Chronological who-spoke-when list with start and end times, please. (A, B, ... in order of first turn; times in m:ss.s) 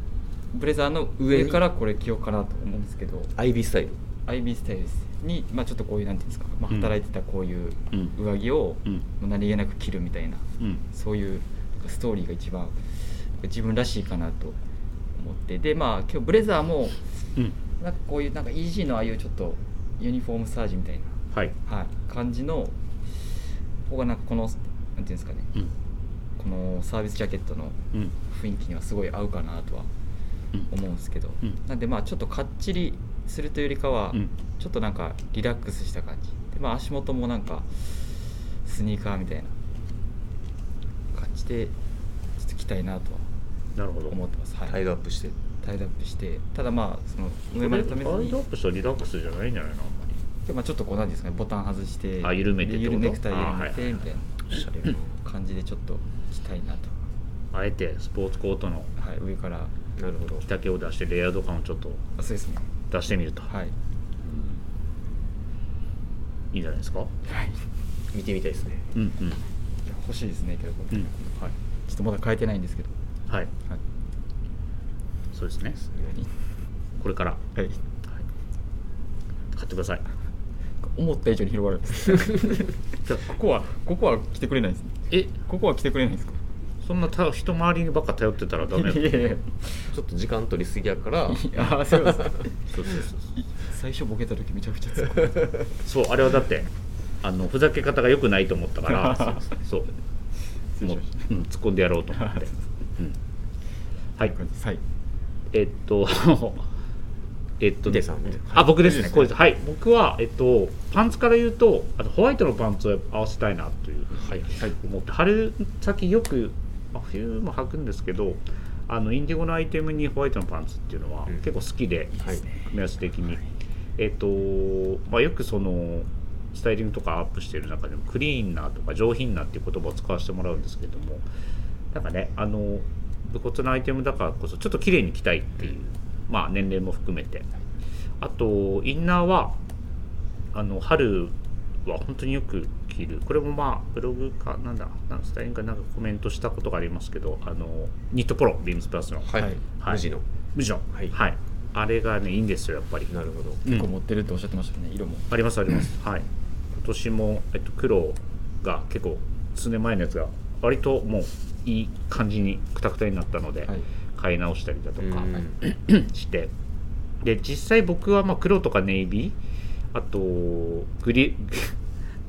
0:00.5-0:03.3 A
0:01.2-0:01.6 B
0:03.4-0:04.0 B
0:04.3-0:14.6 A
0:15.2-0:17.0 A
0:17.8-0:22.8 A
0:23.9-0:25.5 A
0:26.4-0:29.9 A
0:30.7-0:38.1 A
0:38.6-0:39.5 A
0:41.1-0:41.7 A
0:42.4-0:43.3 A
0:43.8-0:44.2 C
0:44.1-0:44.8 A
0:44.7-0:45.4 B
0:45.5-0:48.4 A
0:47.6-0:50.2 C
0:50.5-0:56.9 A
0:52.2-0:54.0 C
0:57.5-0:58.9 C
0:59.0-0:59.7 A
1:00.0-1:00.4 B
1:00.4-1:02.0 C
1:02.2-1:02.7 A
1:02.9-1:03.5 C
1:03.5-1:03.7 A
1:06.5-1:07.1 C
1:07.2-1:07.6 A
1:08.1-1:08.9 B
1:09.0-1:09.4 C
1:09.8-1:12.9 A
1:15.3-1:15.8 C
1:15.9-1:16.1 B
1:17.0-1:17.4 C
1:19.5-1:20.0 C
1:20.8-1:26.4 A
1:26.8-1:29.2 C
1:28.7-1:29.8 A
1:29.9-1:31.4 B
1:31.3-1:32.5 A
1:32.7-1:33.2 C
1:33.4-1:35.6 A
1:35.8-1:36.7 C
1:37.2-1:39.9 C
1:38.9-1:39.4 A
1:40.8-1:41.3 A
1:40.8-1:43.2 C
1:42.2-1:42.5 A
1:44.3-1:44.8 A
1:45.5-1:46.7 C
1:47.6-2:03.4 C
1:47.9-1:48.9 B
1:48.7-1:49.3 A
2:04.0-2:11.2 C
2:11.9-2:17.5 C
2:18.2-2:19.6 C
2:20.5-2:21.4 C
2:21.9-2:30.0 C
2:29.3-2:30.2 B
2:29.4-2:29.6 A
2:30.6-2:33.9 C
2:33.1-2:33.6 B
2:33.7-2:35.3 A
2:35.3-2:46.5 C
2:45.0-2:45.6 B
2:47.2-2:49.4 C
2:49.9-2:51.8 C